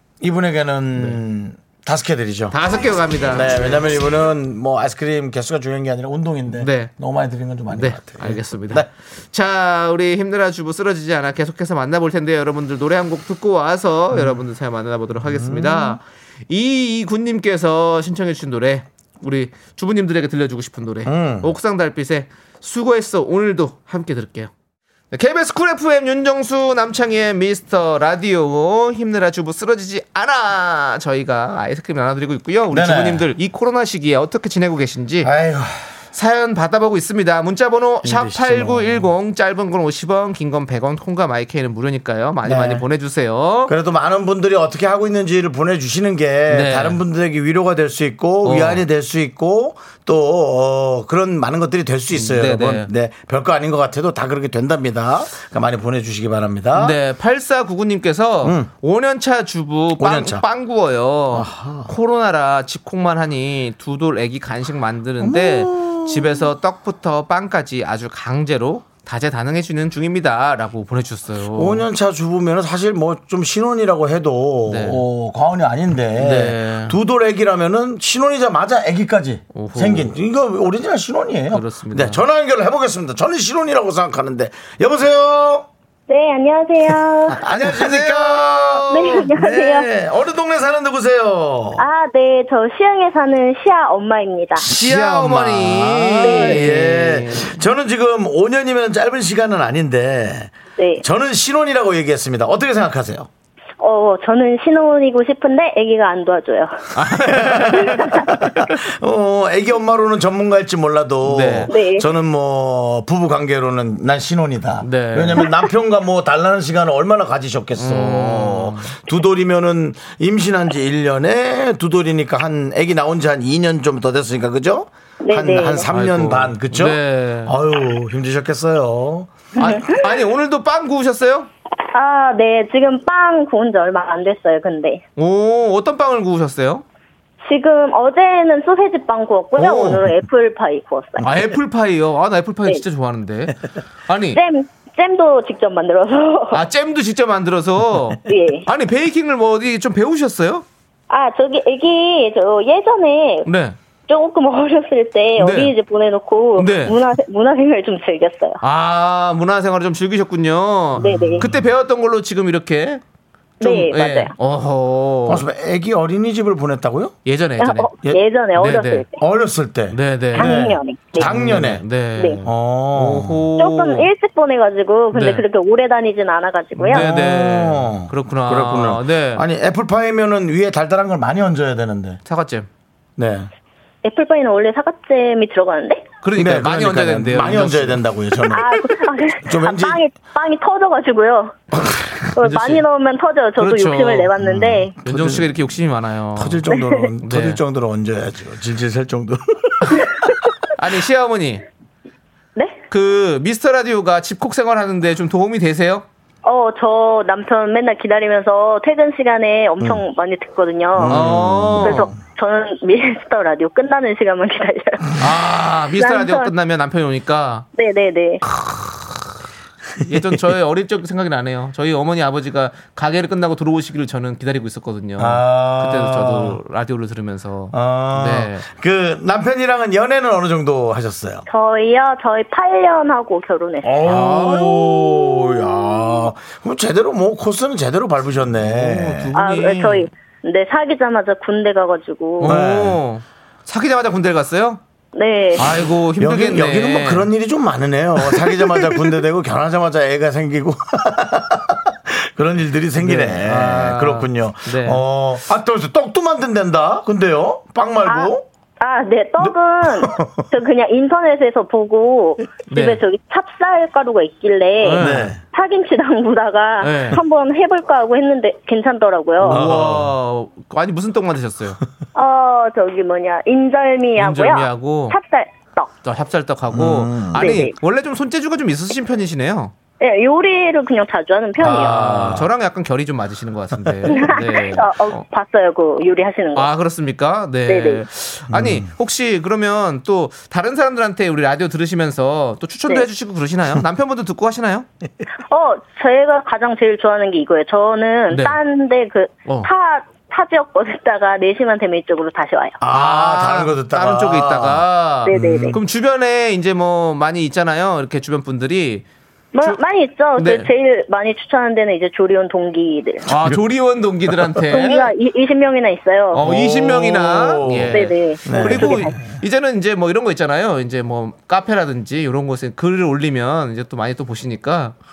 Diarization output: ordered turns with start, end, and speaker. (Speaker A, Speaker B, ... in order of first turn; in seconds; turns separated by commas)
Speaker A: 0.2-2.5, Speaker B: 2.5-3.9, Speaker A: 3.3-8.9, Speaker B: 6.5-6.9, Speaker B: 7.7-24.5, Speaker A: 14.1-14.4, Speaker A: 15.2-16.0, Speaker A: 21.0-21.5, Speaker B: 25.1-35.3, Speaker A: 32.7-33.2, Speaker A: 35.2-35.9, Speaker B: 36.1-43.7, Speaker A: 38.0-39.1, Speaker A: 42.4-42.8, Speaker A: 43.7-57.0, Speaker B: 46.5-47.0, Speaker B: 48.4-48.8, Speaker B: 52.1-52.9, Speaker B: 56.8-71.8, Speaker A: 58.4-58.7, Speaker A: 60.0-60.4, Speaker A: 61.3-61.9, Speaker A: 65.2-66.5, Speaker A: 71.5-85.7, Speaker B: 74.7-75.0, Speaker B: 76.2-77.0, Speaker B: 79.5-80.1, Speaker B: 81.5-82.2, Speaker C: 86.1-87.4, Speaker A: 87.3-91.8, Speaker B: 87.4-88.8, Speaker C: 88.9-89.8, Speaker C: 91.8-94.7, Speaker A: 94.6-103.3, Speaker B: 94.7-97.6, Speaker C: 96.2-96.6, Speaker C: 100.8-101.0, Speaker C: 103.8-106.8, Speaker B: 106.9-108.3, Speaker A: 107.1-129.6, Speaker B: 111.2-111.7, Speaker C: 111.7-112.0, Speaker B: 114.8-115.5, Speaker B: 117.8-118.9, Speaker C: 125.2-125.8, Speaker B: 125.8-127.5, Speaker B: 129.6-131.5, Speaker C: 129.6-129.9, Speaker C: 131.9-135.0, Speaker B: 135.2-136.8, Speaker C: 137.4-141.2, Speaker B: 139.6-140.0, Speaker B: 141.2-144.4, Speaker A: 141.2-141.5, Speaker C: 144.3-146.6, Speaker B: 146.5-150.6, Speaker C: 148.2-148.6, Speaker C: 151.1-153.5, Speaker B: 153.4-153.8, Speaker C: 154.1-158.6, Speaker B: 155.4-155.7, Speaker B: 156.6-157.0, Speaker B: 158.6-163.0, Speaker C: 160.9-161.4, Speaker A: 161.0-161.6, Speaker B: 163.6-165.4, Speaker C: 163.6-164.3, Speaker A: 165.2-167.1, Speaker B: 167.2-167.9, Speaker C: 167.6-169.1, Speaker B: 168.6-169.0, Speaker A: 169.2-171.8, Speaker B: 169.9-170.6, Speaker C: 170.3-171.3, Speaker B: 171.1-174.1, Speaker C: 172.2-172.4, Speaker A: 172.4-173.5, Speaker C: 173.6-177.1, Speaker B: 175.1-175.4, Speaker A: 176.8-182.2, Speaker B: 176.9-179.4, Speaker B: 182.2-182.7, Speaker A: 183.2-183.5, Speaker C: 184.0-186.1, Speaker B: 186.2-188.0, Speaker A: 186.3-190.0, Speaker C: 188.5-191.6, Speaker C: 192.3-194.9, Speaker B: 192.4-192.8, Speaker B: 193.6-194.3, Speaker A: 194.4-195.6, Speaker B: 195.0-197.6, Speaker A: 196.3-200.4, Speaker C: 196.7-197.1, Speaker B: 200.7-201.6, Speaker B: 202.9-206.1, Speaker C: 206.4-215.2, Speaker A: 211.0-212.2, Speaker B: 211.0-212.1, Speaker B: 215.2-217.7, Speaker C: 215.9-216.5, Speaker C: 217.8-218.4, Speaker B: 218.5-219.3, Speaker B: 220.0-228.7, Speaker A: 220.1-220.4, Speaker A: 225.2-226.6, Speaker A: 227.7-231.4, Speaker C: 231.5-234.3, Speaker A: 233.8-239.3, Speaker B: 234.0-234.8, Speaker B: 238.6-240.1, Speaker C: 239.3-242.6, Speaker B: 242.4-244.8, Speaker A: 242.4-243.0, Speaker C: 245.1-245.7, Speaker B: 245.6-247.3, Speaker A: 246.2-258.4, Speaker B: 248.2-249.0, Speaker B: 253.0-255.0, Speaker C: 258.0-269.6, Speaker A: 259.4-260.5, Speaker B: 262.7-263.0, Speaker B: 264.8-265.3, Speaker A: 265.0-265.4, Speaker B: 266.8-267.2, Speaker B: 269.4-271.8, Speaker A: 269.5-270.1, Speaker C: 272.1-275.9, Speaker B: 274.1-275.2, Speaker B: 276.0-279.7, Speaker A: 276.7-277.5, Speaker C: 277.3-277.7, Speaker C: 280.0-282.1, Speaker A: 281.6-282.5, Speaker B: 281.6-285.2, Speaker A: 283.8-284.1, Speaker C: 284.1-286.7, Speaker B: 286.5-294.9, Speaker C: 287.7-288.0, Speaker A: 288.5-288.9, Speaker C: 295.5-302.8, Speaker B: 298.3-298.6, Speaker B: 299.4-299.7, Speaker A: 302.8-305.8, Speaker B: 302.9-309.1, Speaker C: 305.3-305.8, Speaker C: 309.5-313.2, Speaker B: 310.3-310.7, Speaker B: 313.2-315.1, Speaker A: 313.3-313.6, Speaker C: 314.7-316.4, Speaker B: 316.3-324.9, Speaker A: 316.3-319.2, Speaker C: 317.9-319.2